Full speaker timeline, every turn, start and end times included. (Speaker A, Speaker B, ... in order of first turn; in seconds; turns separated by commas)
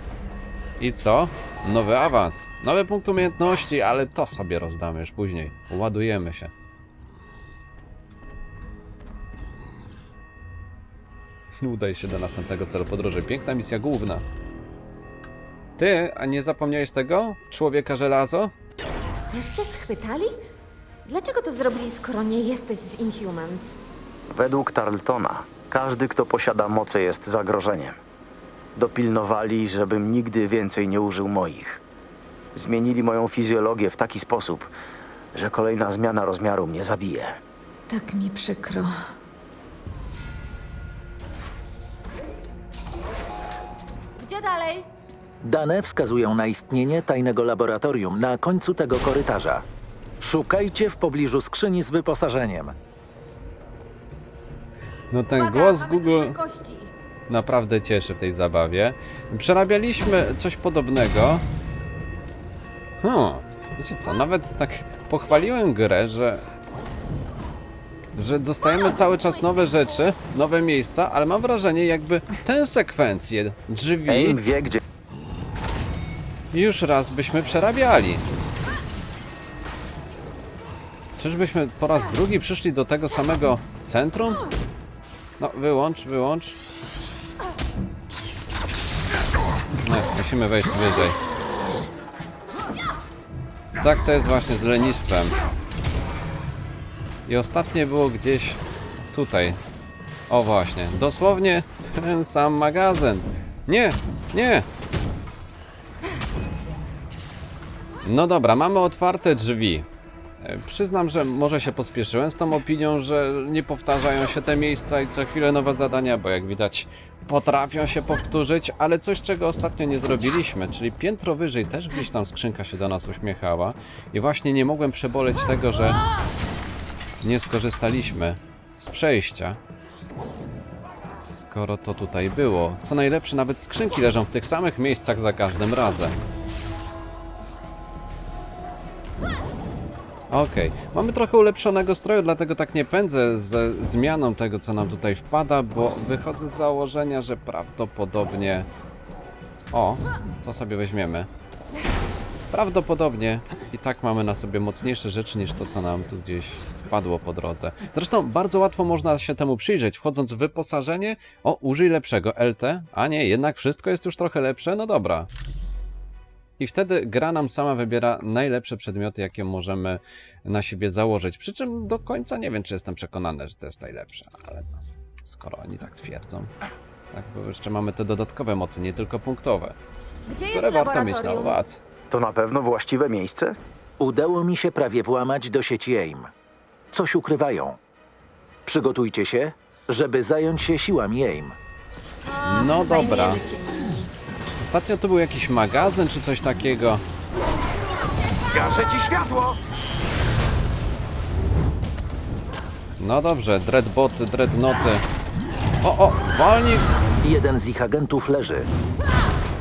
Speaker A: 0.8-6.5, Speaker A: 11.6-14.2, Speaker A: 15.8-18.5, Speaker B: 19.3-20.4, Speaker B: 21.1-23.8, Speaker C: 24.3-28.0, Speaker C: 28.8-31.8, Speaker C: 32.5-34.7, Speaker C: 35.3-37.4, Speaker B: 37.9-38.9, Speaker B: 44.2-44.9, Speaker D: 45.4-49.6, Speaker D: 50.2-52.7, Speaker A: 55.1-56.4, Speaker B: 55.3-56.9, Speaker A: 57.3-61.4, Speaker A: 63.0-66.5, Speaker A: 68.1-74.4, Speaker C: 74.1-74.8, Speaker A: 76.5-78.2, Speaker A: 81.2-84.4, Speaker A: 85.4-86.6, Speaker A: 89.8-91.2, Speaker A: 93.8-95.3, Speaker A: 97.3-98.6, Speaker A: 99.1-99.6, Speaker A: 100.3-104.7, Speaker A: 108.0-109.9, Speaker A: 110.4-126.0, Speaker A: 127.2-129.6, Speaker A: 131.2-136.2, Speaker A: 140.3-148.7, Speaker A: 149.7-151.3, Speaker A: 152.5-165.3, Speaker A: 166.6-176.5, Speaker A: 177.1-179.7, Speaker B: 180.3-181.6, Speaker A: 180.5-181.8, Speaker C: 182.1-183.6, Speaker D: 184.0-186.3, Speaker D: 186.9-187.8, Speaker D: 188.7-191.6, Speaker B: 192.2-194.1, Speaker A: 192.4-193.4, Speaker A: 194.6-197.0, Speaker C: 198.5-199.6, Speaker A: 203.0-205.1, Speaker A: 205.8-206.9, Speaker D: 207.2-208.7